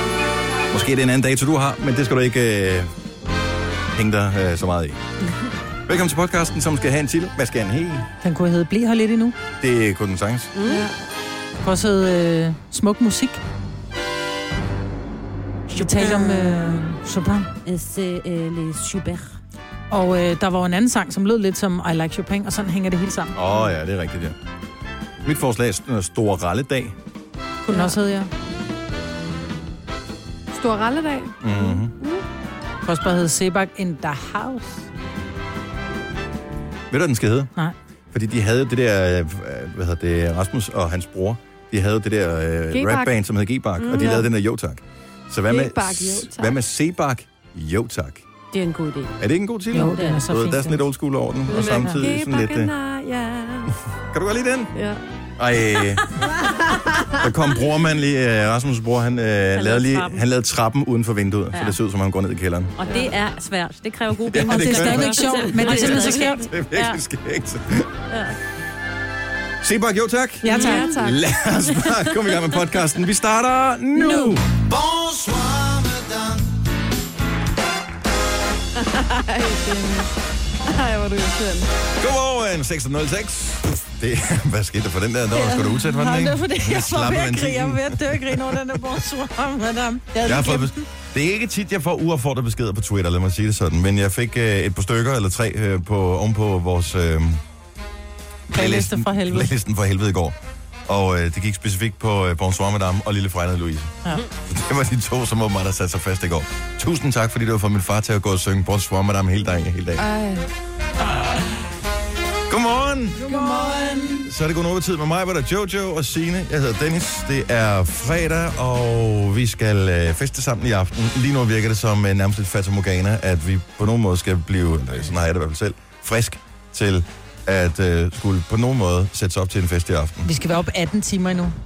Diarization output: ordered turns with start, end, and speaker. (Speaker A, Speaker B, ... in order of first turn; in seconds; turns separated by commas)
Speaker A: 0.7-2.9, Speaker A: 4.0-5.0, Speaker A: 5.9-8.1, Speaker B: 8.2-9.4, Speaker A: 9.6-10.5, Speaker C: 10.6-10.9, Speaker D: 10.7-10.9, Speaker B: 11.6-13.4, Speaker B: 15.7-17.5, Speaker C: 16.0-16.6, Speaker C: 17.6-19.4, Speaker B: 19.9-23.4, Speaker A: 23.3-24.4, Speaker A: 25.2-26.9, Speaker B: 27.7-28.3, Speaker D: 27.7-27.9, Speaker D: 30.5-31.7, Speaker A: 31.4-31.9, Speaker B: 32.9-34.9, Speaker A: 36.9-37.5, Speaker A: 38.1-48.3, Speaker D: 42.7-43.1, Speaker C: 43.8-44.2, Speaker D: 43.9-44.3, Speaker D: 45.5-46.6, Speaker C: 48.5-49.1, Speaker A: 49.2-52.7, Speaker B: 49.7-50.8, Speaker C: 49.9-50.2, Speaker D: 51.5-53.7, Speaker A: 54.1-54.7, Speaker D: 54.8-55.0, Speaker A: 55.4-56.0, Speaker A: 57.2-62.8, Speaker C: 59.5-60.2, Speaker C: 62.8-67.0, Speaker A: 64.2-67.9, Speaker B: 64.5-66.5, Speaker C: 68.1-68.4, Speaker A: 69.6-76.4, Speaker B: 70.4-70.9, Speaker D: 70.5-71.2, Speaker C: 70.6-70.8, Speaker C: 71.7-72.2, Speaker D: 78.8-80.1, Speaker D: 80.7-81.7, Speaker A: 82.0-89.0, Speaker B: 85.3-90.8, Speaker A: 90.2-97.4, Speaker A: 98.5-100.4, Speaker B: 98.5-99.5, Speaker A: 100.9-110.1, Speaker D: 110.0-110.5, Speaker A: 112.5-113.3, Speaker B: 113.2-114.3, Speaker D: 113.3-113.7, Speaker A: 114.2-130.3, Speaker B: 130.2-131.5